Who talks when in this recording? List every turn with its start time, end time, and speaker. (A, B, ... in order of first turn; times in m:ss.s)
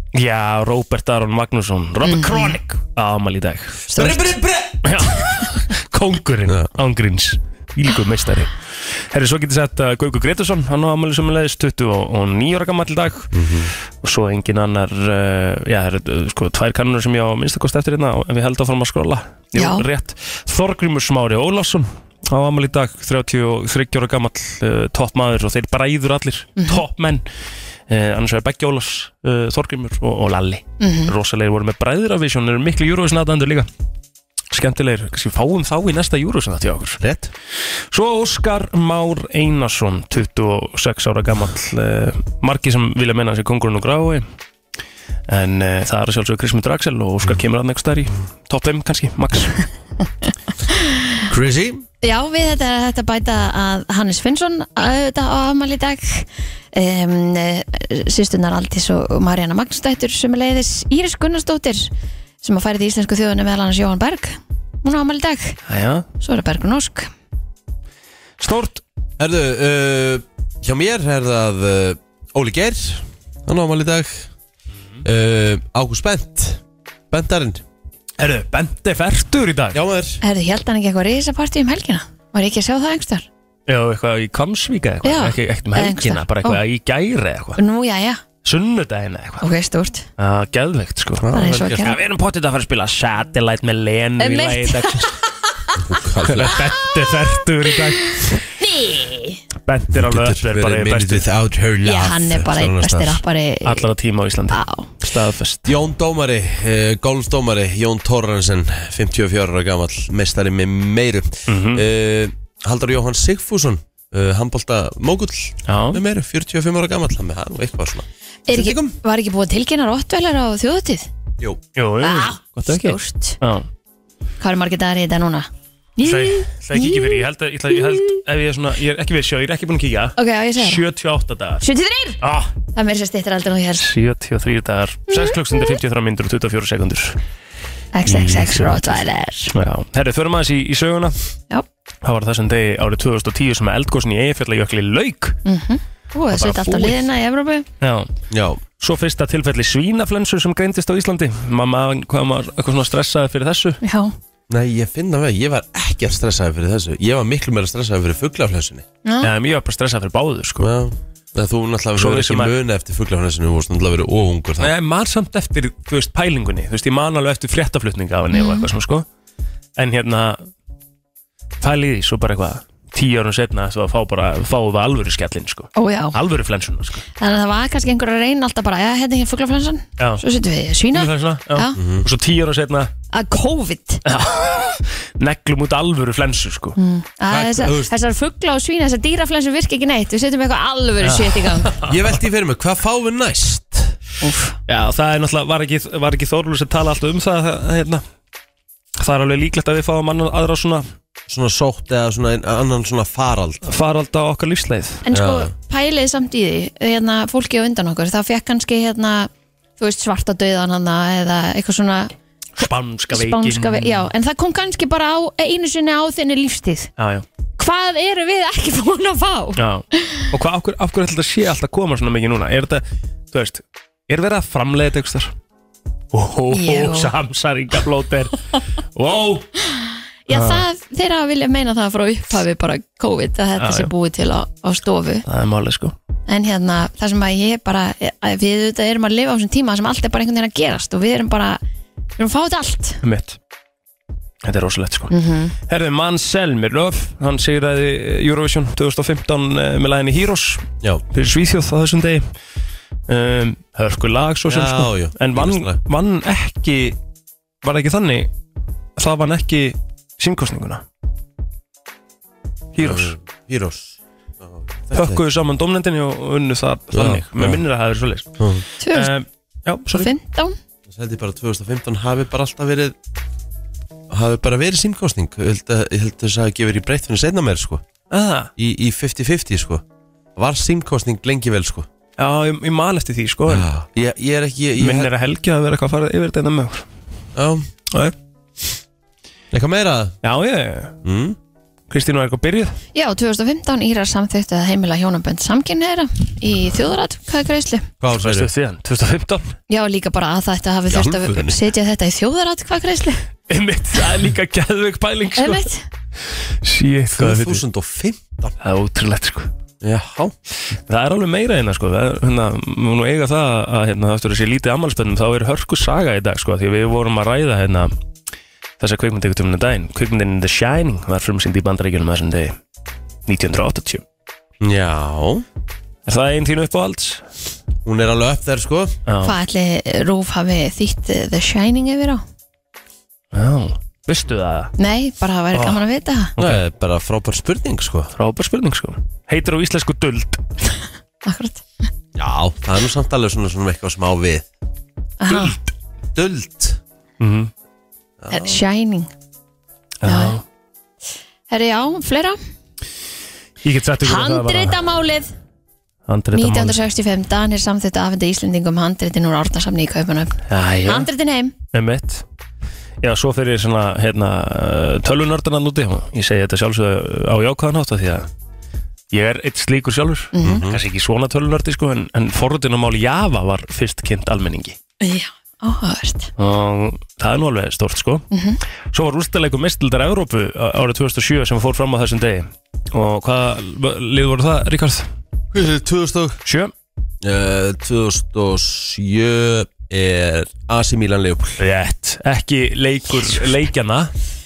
0:00.1-0:03.9 A
0:02.0-0:02.6 B
0:03.9-0:04.3 B
0:03.9-0:04.9 C
0:04.8-0:13.3 A
0:13.3-0:13.7 C
0:14.0-0:27.2 A
0:19.6-0:19.8 B
0:27.9-0:33.7 A
0:30.8-0:31.1 B
0:34.5-0:37.0 A
0:37.0-0:37.3 C
0:37.9-0:44.2 A
0:45.3-0:49.6 A
0:50.7-0:51.0 B
0:51.3-0:51.8 C
0:52.0-1:01.9 B
1:02.4-1:05.6 B
1:05.7-1:06.0 A
1:06.2-1:07.1 B
1:08.4-1:08.8 A
1:09.2-1:14.3 C
1:15.0-1:17.6 C
1:18.2-1:19.8 A
1:19.7-1:20.2 C
1:20.2-1:23.3 B
1:23.7-1:27.6 A
1:25.0-1:26.6 B
1:27.6-1:28.2 B
1:28.4-1:29.4 A
1:29.4-1:30.1 B
1:30.2-1:35.2 A
1:31.2-1:31.9 C
1:31.3-1:32.0 B
1:34.2-1:35.7 B
1:35.8-1:36.6 C
1:36.2-1:38.4 A
1:38.1-1:39.4 B
1:39.6-1:41.2 A
1:39.9-1:43.2 C
1:41.8-1:43.9 B
1:43.6-1:45.7 A
1:44.5-1:44.9 B
1:45.6-1:59.0 C
1:51.5-1:51.8 A
1:55.7-1:56.0 A
1:58.5-2:01.1 B
2:01.8-2:03.7 A
2:02.0-2:03.4 B
2:04.4-2:07.2 B
2:06.0-2:11.6 A
2:10.2-2:10.8 B
2:11.6-2:12.2 B
2:12.2-2:12.5 A
2:12.7-2:13.9 B
2:13.8-2:17.2 A
2:15.1-2:15.4 B
2:17.9-2:19.5 B
2:18.1-2:19.0 A
2:19.5-2:21.2 A
2:22.0-2:25.4 A
2:25.4-2:27.7 B
2:26.3-2:27.1 A
2:27.8-2:28.1 A
2:28.3-2:28.6 C
2:28.8-2:33.8 A
2:33.8-2:34.1 B
2:34.5-2:38.8 C
2:39.0-2:39.3 B
2:39.2-2:40.7 A
2:40.6-2:44.7 C
2:42.0-2:42.5 A
2:44.6-2:49.0 A
2:48.3-2:48.7 B
2:49.8-2:50.5 A
2:51.6-2:57.0 A
2:55.8-2:56.2 B
2:57.2-3:01.8 B
3:00.9-3:02.9 A
3:01.8-3:02.1 C
3:03.1-3:04.0 B
3:04.0-3:06.8 A
3:06.8-3:11.7 B
3:07.3-3:07.9 C
3:11.0-3:12.0 A
3:11.8-3:14.0 C
3:14.2-3:14.6 B
3:14.7-3:18.0 A
3:19.0-3:20.8 A
3:21.3-3:23.7 C
3:23.6-3:25.0 A
3:25.0-3:32.1 B
3:25.1-3:25.5 C
3:32.6-3:34.1 A
3:33.1-3:36.9 B
3:37.0-3:37.2 A
3:37.6-3:40.2 B
3:39.6-3:45.3 A
3:46.1-3:49.5 A
3:46.5-3:47.1 B
3:49.6-3:55.2 B
3:50.3-3:50.6 A
3:53.6-3:53.9 A
3:55.2-3:55.9 A
3:56.3-4:01.6 B
4:02.2-4:03.0 B
4:03.0-4:03.4 A
4:04.4-4:05.1 A
4:05.1-4:05.5 B
4:05.7-4:12.2 A
4:13.1-4:17.0 A
4:14.5-4:15.8 C
4:17.6-4:18.3 A
4:19.0-4:20.8 A
4:22.7-4:23.1 A
4:22.8-4:25.2 C
4:24.9-4:28.3 A
4:26.9-4:27.6 C
4:28.4-4:28.6 C
4:28.8-4:29.1 B
4:28.9-4:30.1 A
4:29.9-4:30.5 B
4:30.9-4:33.0 C
4:34.1-4:37.8 C
4:38.1-4:38.5 A
4:38.6-4:39.8 C
4:40.4-4:41.9 C
4:42.2-4:43.7 A
4:43.5-4:45.1 C
4:44.8-4:46.8 A
4:47.3-4:47.7 C
4:49.5-4:50.2 C
4:50.2-4:51.0 A
4:51.0-4:51.4 C
4:51.9-4:52.8 A
4:52.9-4:57.9 B
4:58.0-4:58.5 C
4:58.2-4:59.5 A
4:59.7-5:03.2 B
5:00.9-5:01.6 C
5:03.5-5:05.7 A
5:05.4-5:05.8 B
5:06.6-5:07.6 A
5:07.1-5:08.5 C
5:08.6-5:09.5 A
5:09.8-5:10.3 C
5:10.8-5:17.9 A
5:18.8-5:22.6 A
5:23.3-5:24.0 A
5:24.6-5:25.4 C
5:26.0-5:27.2 A
5:27.8-5:29.0 C
5:29.1-5:29.3 A
5:29.2-5:32.2 B
5:33.3-5:34.7 A
5:34.8-5:36.3 B
5:35.5-5:35.8 A
5:36.4-5:36.6 A
5:36.4-5:38.1 C
5:38.1-5:40.4 A
5:41.2-5:41.6 B
5:42.2-5:44.5 C
5:45.2-5:45.6 B
5:46.1-5:46.8 C
5:47.2-5:47.5 A
5:48.2-5:48.6 C
5:48.3-5:49.1 B
5:50.0-5:50.4 A
5:50.0-5:50.4 B
5:51.5-5:52.4 B
5:53.6-5:54.8 A
5:54.0-5:55.3 B
5:56.1-5:56.8 A
5:56.3-6:01.5 B
6:00.5-6:01.1 A
6:01.7-6:02.2 A
6:03.0-6:08.3 A
6:09.1-6:14.8 A
6:10.3-6:10.6 B
6:10.4-6:10.8 C
6:15.0-6:16.3 B
6:16.4-6:18.3 A
6:18.3-6:18.6 B
6:18.9-6:25.1 A
6:25.5-6:26.4 C
6:26.4-6:26.7 A
6:27.2-6:31.6 C
6:31.6-6:34.1 A